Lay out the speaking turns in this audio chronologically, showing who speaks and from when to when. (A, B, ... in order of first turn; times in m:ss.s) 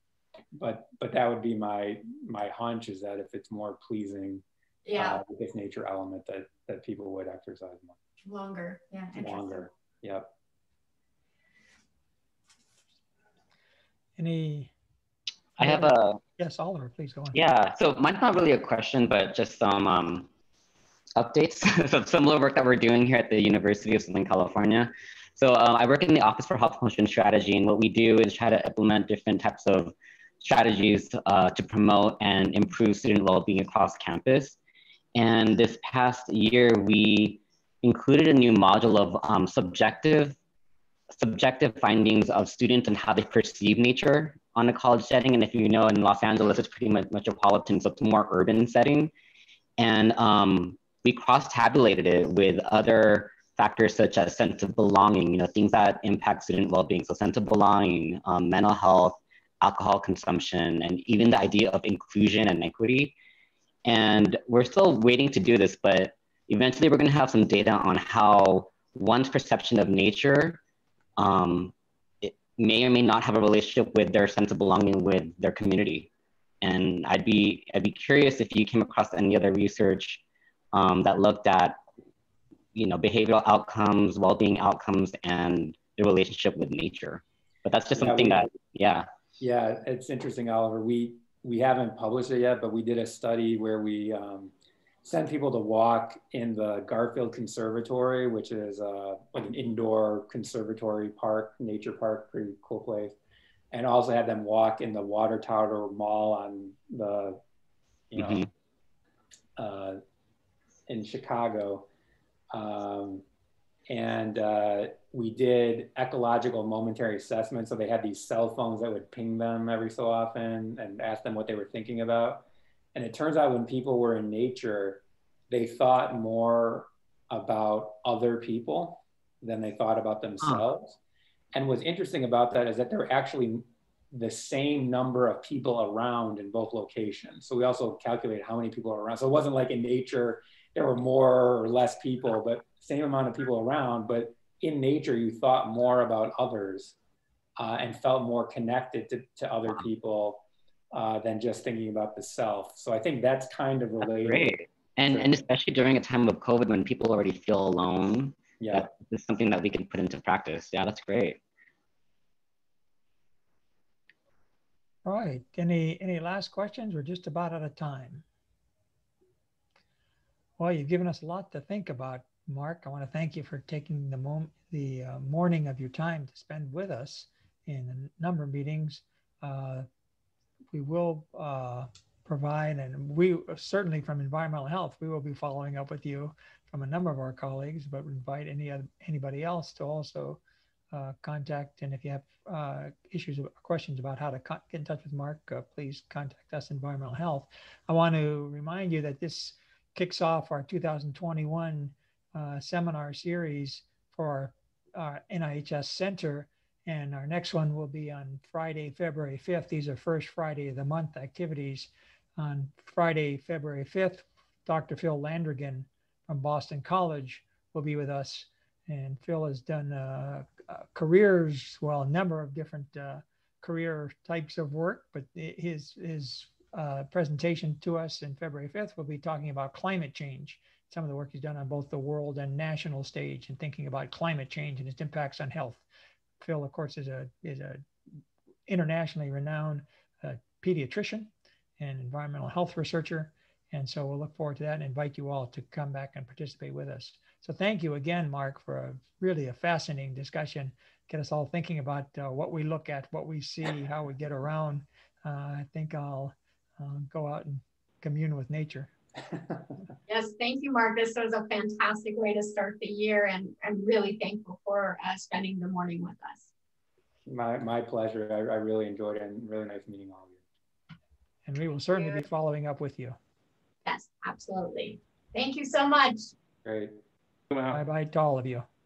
0:00.5-0:04.4 A
0:04.8-0:05.2 B
0:05.0-0:08.0 A
0:08.2-0:09.7 B
0:09.2-0:10.3 A
0:14.2-0:14.7 C
0:15.6-0:16.2 D
0:15.6-0:17.4 C
0:17.3-0:20.3 D
0:21.2-0:34.6 D
0:35.1-0:40.4 D
0:41.1-0:49.1 D
0:49.8-1:03.1 D
1:03.8-1:10.6 D
1:11.2-1:16.1 D
1:16.6-1:20.2 D
1:20.7-1:21.8 D
1:22.7-1:29.1 D
1:28.0-1:28.4 A
1:29.4-1:34.5 A
1:35.0-1:43.2 A
1:43.7-1:47.4 A
1:48.1-1:48.5 A
1:48.2-1:48.5 D
1:49.6-1:50.0 A
1:50.9-1:51.9 A
1:52.5-1:53.2 A
1:53.9-2:11.0 A
2:11.5-2:27.0 A
2:27.6-2:35.4 A
2:34.0-2:41.4 D
2:38.6-2:38.9 A
2:45.0-2:48.2 C
2:50.6-2:59.8 C
3:00.7-3:10.4 C
3:10.9-3:55.8 C
3:56.4-3:57.8 C
3:58.7-4:18.9 C
4:19.3-4:19.6 A
4:20.1-4:26.5 B
4:27.2-4:30.4 A
4:31.4-4:33.2 C
4:31.9-4:32.2 B
4:33.8-4:36.3 B
4:36.6-4:37.0 A
4:37.7-4:38.7 C